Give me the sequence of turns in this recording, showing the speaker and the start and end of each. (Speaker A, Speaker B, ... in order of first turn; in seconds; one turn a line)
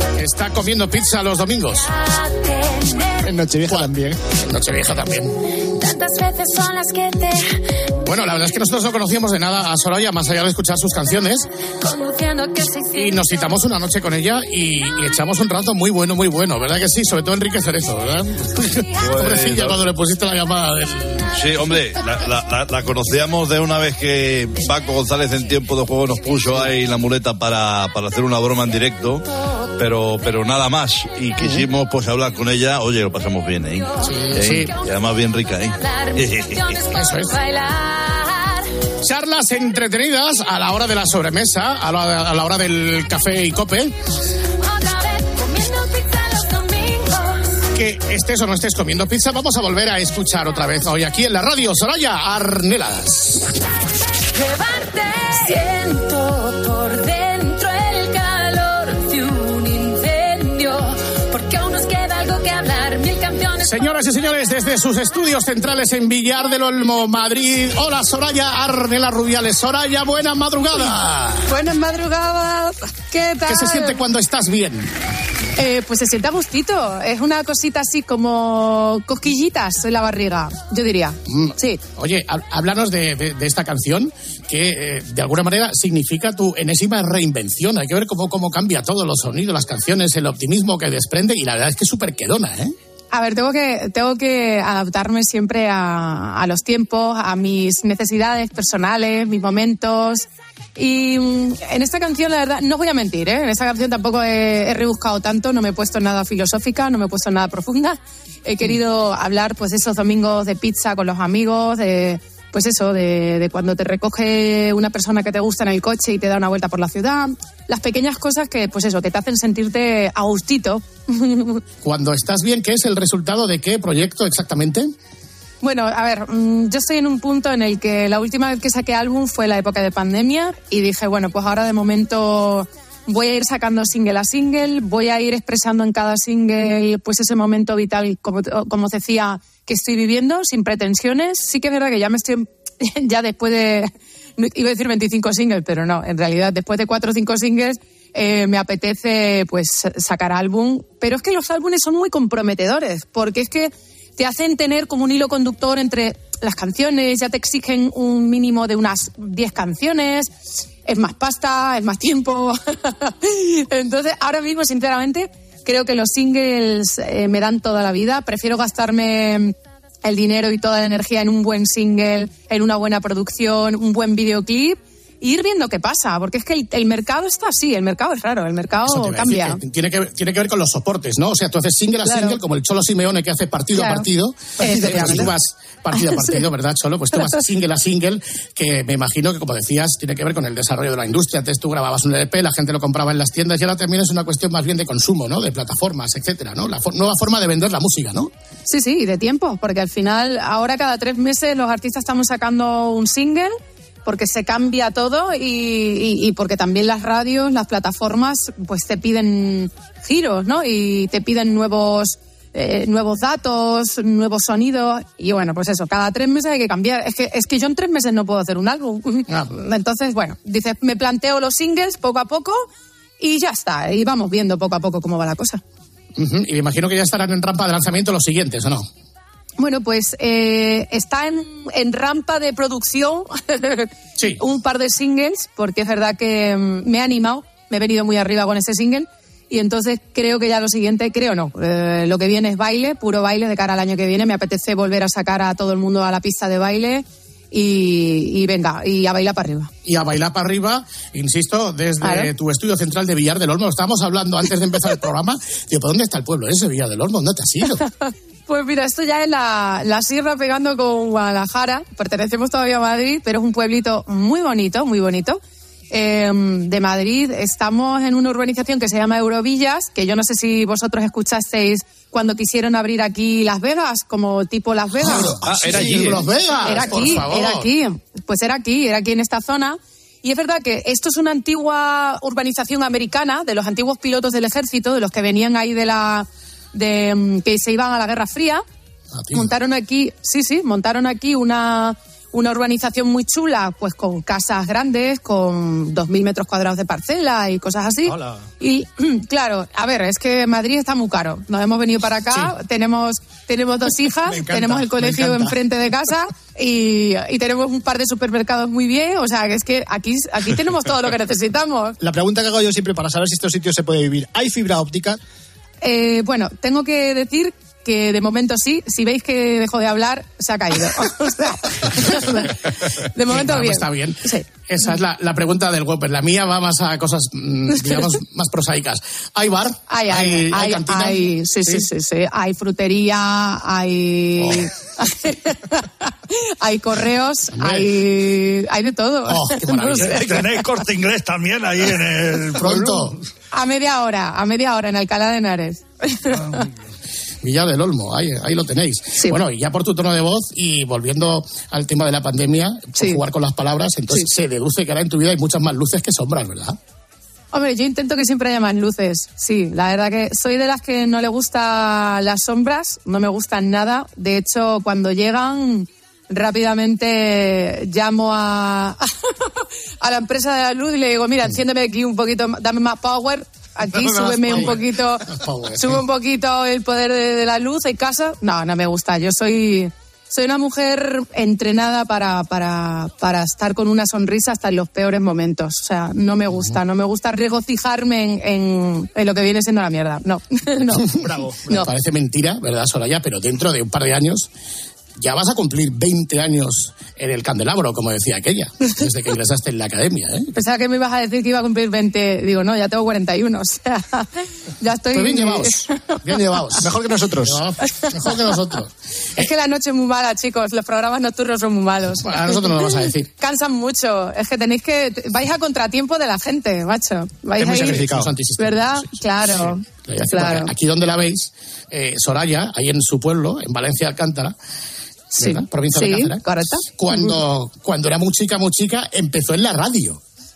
Speaker A: 0.2-1.9
Speaker B: 1.8-3.3
Speaker C: 3.2-4.2
Speaker A: 3.6-5.4
Speaker B: 5.5-8.0
Speaker A: 8.1-11.5
Speaker B: 11.8-13.7
Speaker A: 12.9-21.2
Speaker D: 19.0-19.8
Speaker D: 21.3-29.3
Speaker D: 29.8-36.8
Speaker A: 31.4-31.7
Speaker B: 33.8-34.9
Speaker A: 34.0-34.7
Speaker B: 35.8-38.9
Speaker A: 36.9-37.4
Speaker A: 39.0-44.0
Speaker B: 44.6-47.6
Speaker A: 47.8-53.6
Speaker B: 54.3-64.3
Speaker A: 63.6-71.5
Speaker E: 71.5-74.0
Speaker A: 73.5-74.9
Speaker E: 75.6-81.8
Speaker A: 81.3-92.7
Speaker E: 93.1-121.6
Speaker A: 121.8-124.9
Speaker E: 125.6-160.3
Speaker E: 160.9-179.6
Speaker A: 178.9-198.3
Speaker E: 182.0-182.4
Speaker E: 183.7-184.1
Speaker E: 184.6-185.3
Speaker C: 184.7-185.1
Speaker E: 185.9-186.4
Speaker E: 187.2-187.4
Speaker E: 198.7-203.5
Speaker E: 204.1-222.7
Speaker E: 223.2-225.6
Speaker A: 226.2-228.9
Speaker E: 229.6-249.7
Speaker A: 249.8-257.8
Speaker E: 252.0-252.3
Speaker E: 257.8-275.8
Speaker A: 275.0-277.7
Speaker C: 275.1-276.2
Speaker E: 276.6-288.6
Speaker A: 289.1-289.5
Speaker E: 289.3-312.0
Speaker C: 298.1-298.4
Speaker C: 304.2-305.5
Speaker C: 312.0-315.2
Speaker E: 315.8-324.9
Speaker A: 323.3-331.9
Speaker E: 327.7-328.1
Speaker E: 329.9-340.4
Speaker A: 337.6-337.9
Speaker A: 339.3-340.5
Speaker F: 340.0-343.2
Speaker A: 342.6-343.2
Speaker E: 343.5-346.6
Speaker A: 347.4-356.8
Speaker E: 357.5-391.1
Speaker C: 374.0-374.7
Speaker A: 374.1-376.0
Speaker C: 391.1-391.6
Speaker A: 391.7-394.5
Speaker A: 395.2-400.5
Speaker E: 400.6-406.2
Speaker A: 405.1-409.4
Speaker C: 406.8-407.6
Speaker E: 407.9-408.3
Speaker E: 409.4-418.0
Speaker A: 412.2-413.3
Speaker A: 417.6-424.6
Speaker C: 417.6-418.3
Speaker E: 418.6-420.7
Speaker A: 425.4-430.2
Speaker E: 425.4-427.4